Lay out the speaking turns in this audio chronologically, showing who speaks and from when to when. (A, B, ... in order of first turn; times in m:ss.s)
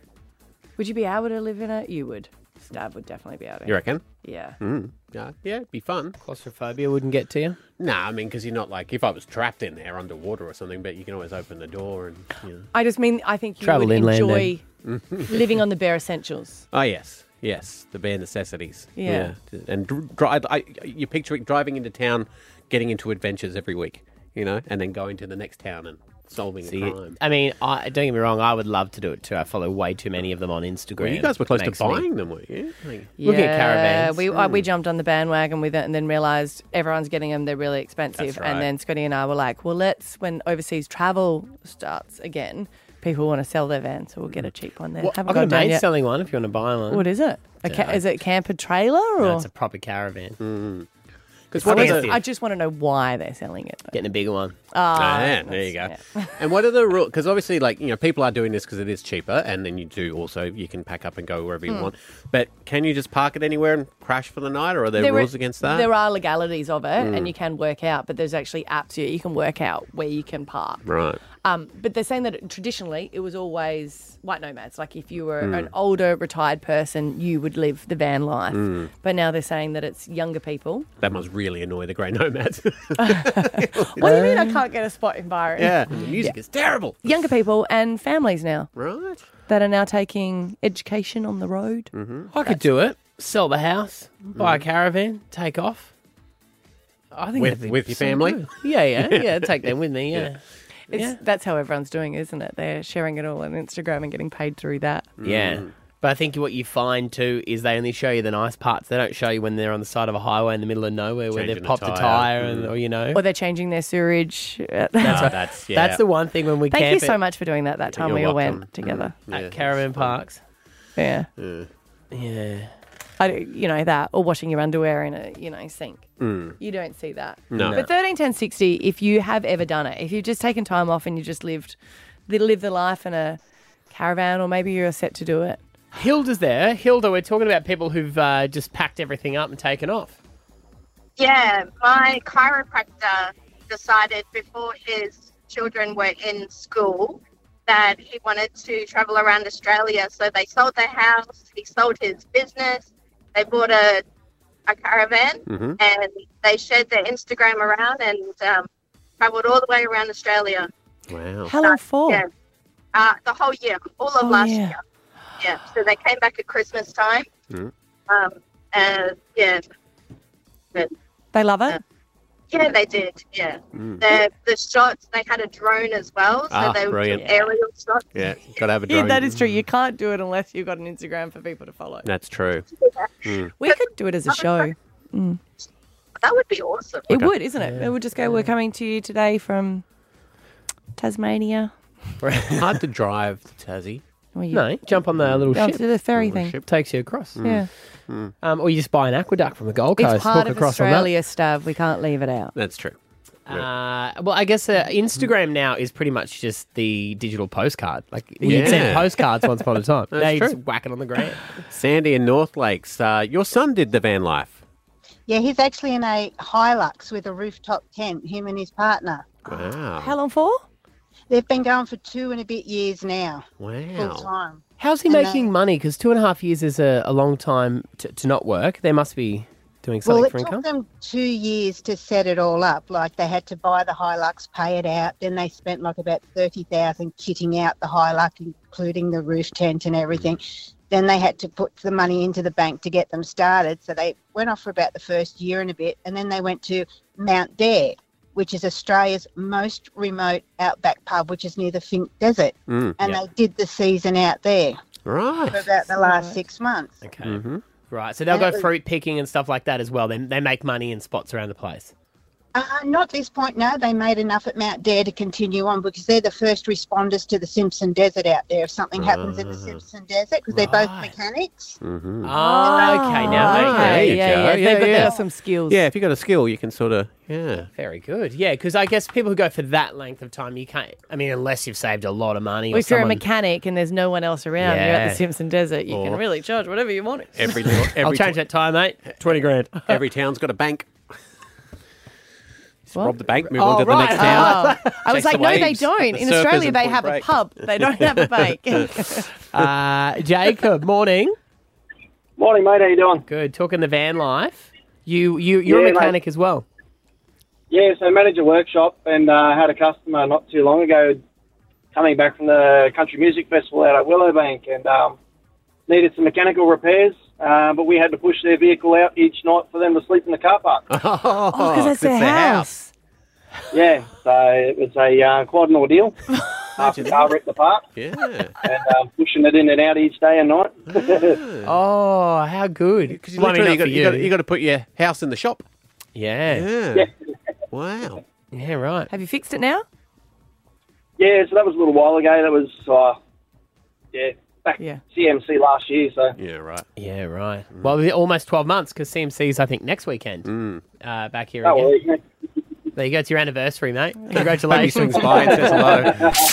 0:00.8-0:04.6 A
0:03.6-0:06.2 B
0:06.2-0:07.6 C
0:07.8-0:12.7 B
0:12.7-0:14.6 A
0:13.6-0:14.5 C
0:14.8-0:15.6 B
0:15.3-0:16.6 A
0:16.7-0:27.2 B
0:19.0-0:19.3 A
0:26.6-0:32.0 C
0:31.0-0:33.1 B
0:33.2-0:45.8 A
0:33.2-0:34.2 C
0:34.3-0:34.6 B
0:38.2-0:38.7 B
0:45.0-0:48.0 C
0:46.9-0:49.5 A
0:49.2-0:50.4 C
0:50.4-0:50.9 B
0:51.5-0:52.2 B
0:51.6-0:52.2 C
0:51.6-0:53.9 A
0:53.9-0:54.6 C
0:54.7-0:56.3 A
0:54.9-1:05.9 B
1:05.0-1:10.8 A
1:07.0-1:07.3 B
1:10.8-1:11.2 B
1:11.4-1:20.9 A
1:15.4-1:15.7 B
1:18.5-1:18.9 B
1:21.0-1:24.1 B
1:23.0-1:26.4 A
1:24.0-1:24.6 C
1:25.6-1:27.0 B
1:27.0-1:28.7 A
1:28.8-1:29.2 B
1:29.4-1:31.9 A
1:31.9-1:32.3 B
1:32.3-1:35.9 C
1:34.4-1:34.6 B
1:37.1-1:40.4 C
1:37.4-1:40.3 B
1:40.9-1:45.1 A
1:40.9-1:41.2 C
1:45.2-1:45.7 B
1:45.2-1:53.2 C
1:51.3-1:52.7 B
1:53.1-1:55.3 A
1:55.0-1:57.2 C
1:55.0-1:56.0 B
1:56.7-1:59.1 A
1:57.9-2:00.2 B
1:59.3-2:00.4 C
2:01.0-2:01.3 A
2:01.4-2:01.7 B
2:02.1-2:02.7 C
2:03.2-2:13.4 A
2:06.2-2:06.6 B
2:07.5-2:07.9 B
2:07.5-2:07.8 C
2:13.9-2:15.6 A
2:15.9-2:20.2 C
2:21.2-2:34.0 D
2:34.7-2:38.6 D
2:35.5-2:35.8 B
2:39.2-2:40.7 D
2:41.1-2:41.5 B
2:41.5-2:42.2 A
2:42.9-2:44.7 D
2:44.2-2:44.8 A
2:45.4-2:47.3 D
2:48.1-2:49.6 D
2:51.3-2:51.8 A
2:52.5-2:58.0 D
2:53.7-2:54.0 B
2:56.5-2:57.3 B
2:57.1-2:57.5 A
2:58.1-2:59.6 B
2:58.9-3:02.1 A
3:02.0-3:02.7 B
3:03.2-3:03.5 B
3:03.6-3:05.4 A
3:06.2-3:07.0 D
3:07.1-3:09.8 A
3:07.6-3:08.5 C
3:11.0-3:11.7 A
3:12.2-3:12.6 C
3:12.6-3:14.0 B
3:14.3-3:15.0 A
3:14.5-3:15.8 C
3:15.2-3:15.4 B
3:15.5-3:16.6 A
3:16.1-3:16.6 B
3:16.6-3:17.4 C
3:17.4-3:18.3 B
3:17.4-3:17.7 A
3:18.4-3:21.1 C
3:20.0-3:22.5 A
3:22.5-3:23.0 B
3:23.5-3:31.6 C
3:28.4-3:29.2 B
3:30.1-3:30.6 B
3:31.7-3:34.6 B
3:35.3-3:39.4 E
3:39.4-3:40.2 B
3:40.0-3:40.6 A
3:41.3-3:45.5 E
3:43.6-3:44.3 B
3:44.8-3:50.6 C
3:50.0-4:14.8 E
4:12.7-4:13.2 B
4:15.0-4:15.6 B
4:15.5-4:17.0 E
4:15.9-4:16.4 A
4:17.0-4:21.9 C
4:17.2-4:17.6 B
4:18.3-4:18.7 E
4:22.5-4:31.8 E
4:29.0-4:29.8 B
4:30.5-4:31.1 C
4:31.8-4:32.3 B
4:32.2-4:34.3 C
4:32.4-4:35.8 A
4:32.7-4:33.1 E
4:33.1-4:35.2 B
4:35.7-4:37.7 B
4:37.8-4:43.2 C
4:42.7-4:47.8 A
4:44.6-4:45.2 C
4:45.9-4:46.2 B
4:47.3-4:48.4 B
4:48.0-4:49.8 C
4:49.8-4:51.0 B
4:52.9-4:58.9 B
4:53.5-4:55.0 C
4:54.2-4:59.3 A
4:59.5-5:01.4 C
5:02.4-5:03.2 F
5:03.3-5:06.6 C
5:05.6-5:06.1 F
5:07.7-5:11.2 F
5:11.9-5:15.2 F
5:15.9-5:20.8 F
5:20.9-5:22.7 B
5:21.5-5:22.9 A
5:23.7-5:26.1 F
5:26.8-5:27.4 B
5:26.8-5:27.8 F
5:27.9-5:28.6 B
5:28.6-5:31.4 F
5:30.9-5:31.7 B
5:31.6-5:34.3 C
5:33.1-5:35.6 B
5:36.1-5:36.6 C
5:36.5-5:37.1 B
5:37.7-5:38.2 B
5:38.5-5:39.1 C
5:39.1-5:39.8 A
5:41.2-5:43.2 F
5:44.1-5:46.3 F
5:46.4-5:46.9 B
5:47.0-5:50.5 C
5:50.4-5:50.8 B
5:51.0-5:51.9 C
5:51.6-5:52.2 F
5:53.0-5:55.8 C
5:54.7-5:56.2 B
5:55.4-5:56.1 F